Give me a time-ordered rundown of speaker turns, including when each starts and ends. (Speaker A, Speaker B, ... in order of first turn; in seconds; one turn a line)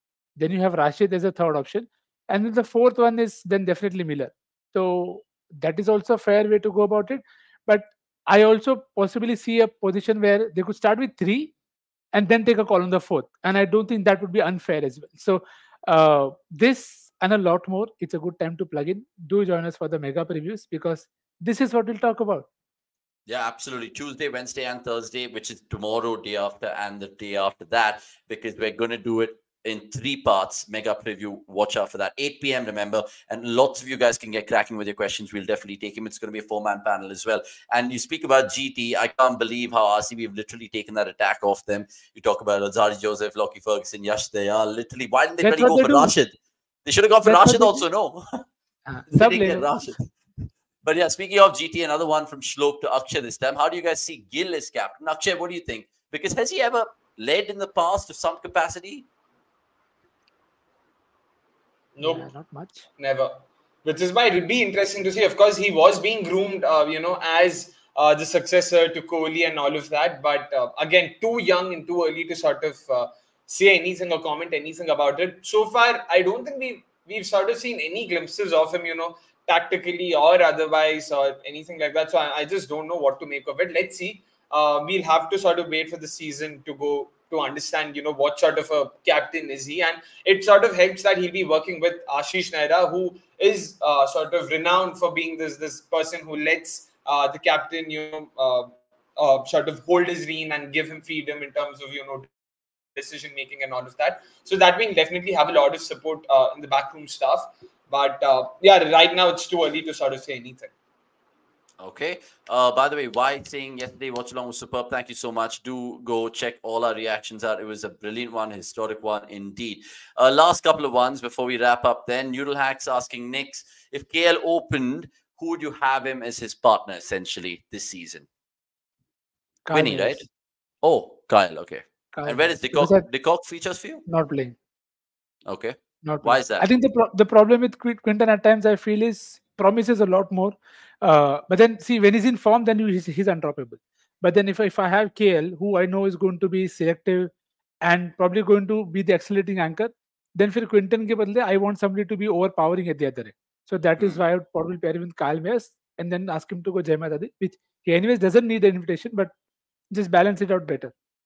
Speaker A: 0.4-11.5
Speaker A: 12.1-22.5
Speaker B: 23.3-48.4
Speaker A: 45.4-46.1
Speaker A: 47.2-47.8
Speaker A: 48.9-49.7
Speaker B: 49.1-50.1
Speaker B: 50.8-59.1
Speaker C: 62.0-62.2
Speaker A: 62.0-62.9
Speaker C: 63.0-102.3
Speaker C: 103.0-110.7
Speaker B: 111.8-128.3
Speaker A: 129.7-130.3
Speaker B: 129.7-130.3
Speaker B: 130.8-134.0
Speaker A: 132.1-133.1
Speaker A: 134.1-134.6
Speaker B: 135.5-136.7
Speaker A: 136.1-147.3
Speaker A: 147.9-159.3
Speaker A: 159.9-160.9